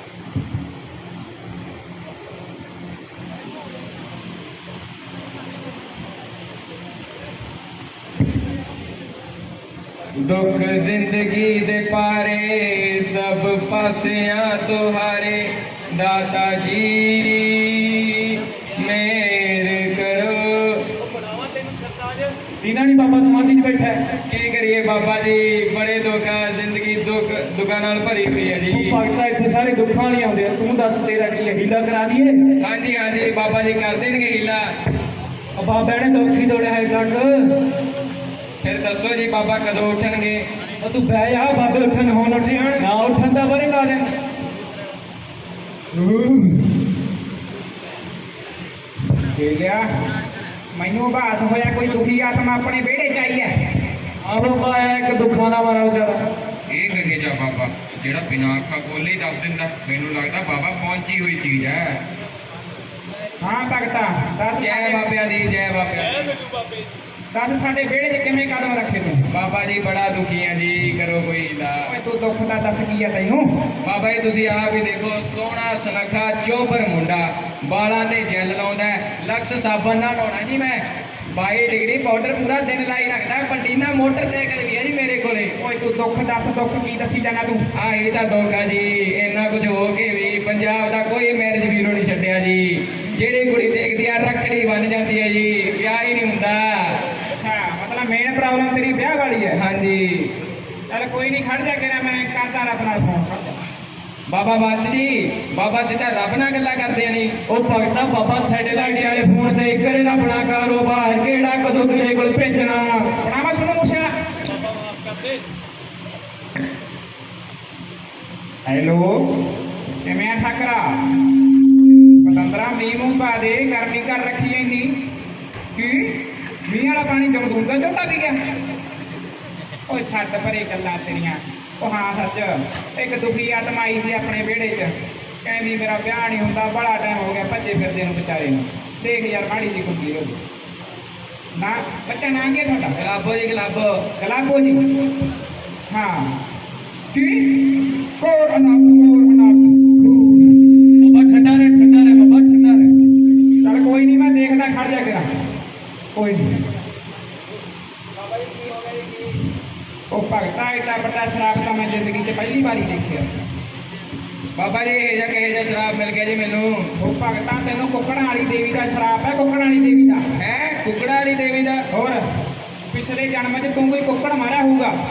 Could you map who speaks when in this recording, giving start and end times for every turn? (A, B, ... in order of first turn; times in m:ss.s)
0:10.2-0:20.9 A
0:21.0-0:24.0 B
0:24.3-0:29.0 A
0:28.7-0:32.5 B
0:32.6-0:34.7 A
0:35.6-0:37.6 B
0:38.6-0:40.4 A
0:40.8-0:44.1 B
0:49.3-0:49.8 C
0:50.7-0:53.5 C
0:54.2-0:56.2 B
0:56.7-1:02.0 A
1:03.4-1:05.0 C
1:04.6-1:06.4 A
1:06.2-1:06.8 B
1:07.3-1:09.3 C
1:09.3-1:11.9 A
1:11.9-1:13.6 C
1:13.8-1:25.5 A
1:25.6-1:27.6 C
1:27.7-1:37.0 A
1:37.3-1:39.6 C
1:39.5-1:40.3 A
1:40.9-1:43.6 C
1:44.3-1:47.3 A
1:47.5-1:53.1 B
1:53.2-1:54.1 C
1:54.6-1:55.4 B
1:58.6-1:59.4 C
2:00.0-2:01.2 C
2:02.2-2:04.9 C
2:05.8-2:08.4 C
2:09.9-2:20.4 C
2:21.6-2:23.0 C
2:23.0-2:24.0 A
2:24.2-2:24.8 C
2:25.9-2:26.4 C
2:27.1-2:30.2 C
2:31.0-2:32.9 B
2:33.6-2:35.3 C
2:36.1-2:36.4 C
2:40.1-2:43.3 C
2:44.6-2:46.9 A
2:47.0-2:50.2 C
2:50.4-2:51.9 A
2:51.9-2:52.2 C
2:52.9-2:54.9 C